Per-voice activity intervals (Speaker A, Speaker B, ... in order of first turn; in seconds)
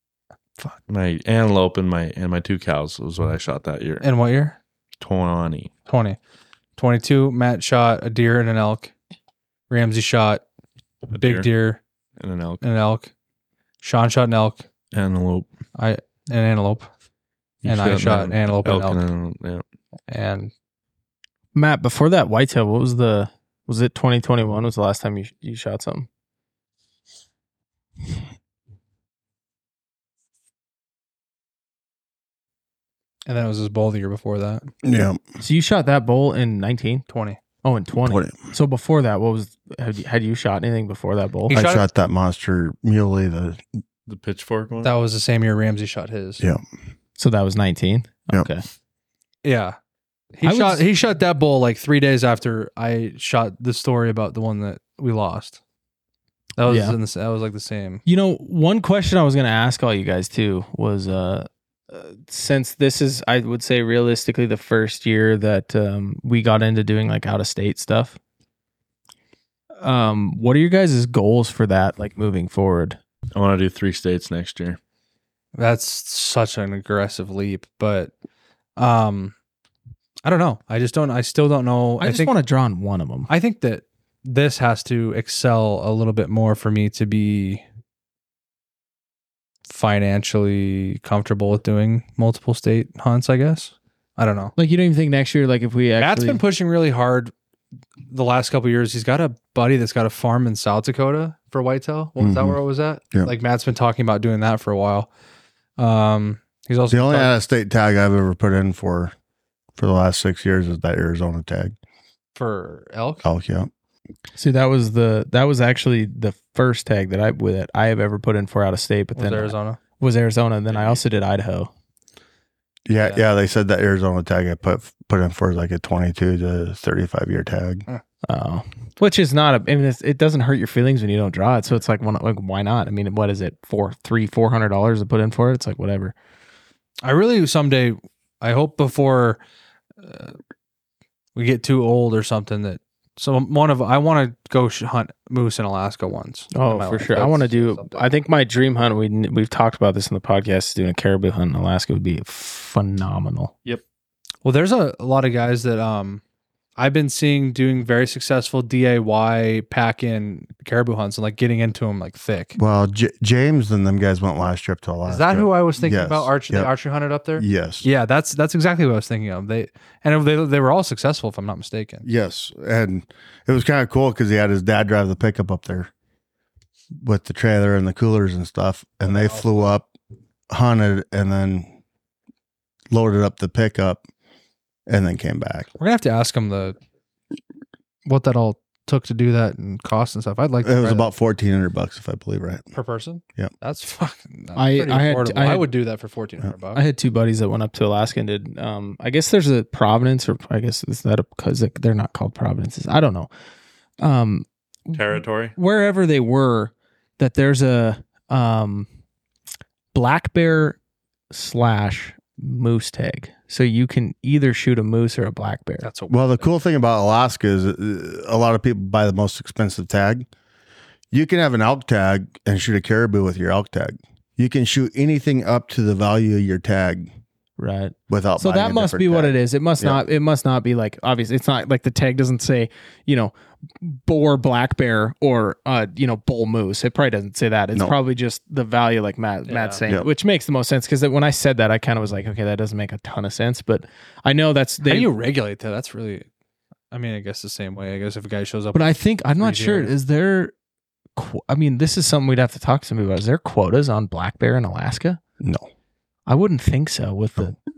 Speaker A: 0.9-4.0, 5.0-5.7, 11.1-11.5, 12.2-12.6, 14.9-15.5, 17.6-19.6, 44.1-44.9, 73.3-74.8, 120.7-121.0, 204.9-205.5
Speaker B: 4.0-4.6, 5.9-6.2, 6.8-8.9, 9.7-10.4, 11.1-11.8, 12.6-13.1, 13.8-14.7, 15.8-16.9, 17.6-19.0, 20.1-20.5, 33.2-34.6, 37.1-37.4, 41.5-41.8, 44.8-46.4, 49.4-49.8, 50.3-55.6, 56.6-58.0, 75.6-78.1, 78.8-79.3, 80.2-82.3, 83.3-87.6, 89.7-94.5, 96.0-97.3, 98.1-105.1, 105.8-107.3, 112.3-113.3, 119.2-119.8, 137.0-139.4, 140.0-140.3, 141.3-148.0, 154.4-156.2, 156.8-162.6, 165.1-172.0, 179.1-179.7, 185.8-186.8, 188.1-191.1, 192.7-196.8, 215.8-216.5, 239.5-239.8, 244.8-246.2, 246.9-249.9
Speaker C: 21.5-26.1, 35.4-37.0, 37.6-41.5, 47.2-48.6, 50.4-50.8, 56.6-57.0, 58.0-68.2, 69.8-73.0, 82.0-83.3, 94.5-96.4, 114.4-121.7, 128.2-136.1, 146.5-153.6, 194.6-195.7, 196.7-203.3, 204.0-205.0, 205.6-208.9, 209.9-210.8, 211.3-215.9, 227.6-245.1, 248.7-250.5, 251.2-255.2, 256.3-257.6
Speaker D: 34.8-35.2, 38.0-38.5, 41.5-43.6, 102.2-102.6, 106.9-109.1, 109.8-111.7, 113.2-113.7, 122.9-127.8, 162.6-166.7, 167.4-167.8, 172.0-175.9, 177.0-179.9, 180.5-181.7, 182.9-184.0, 184.9-185.7, 190.6-192.6, 216.1-220.3, 221.1-227.1, 228.1-230.0, 255.4-255.7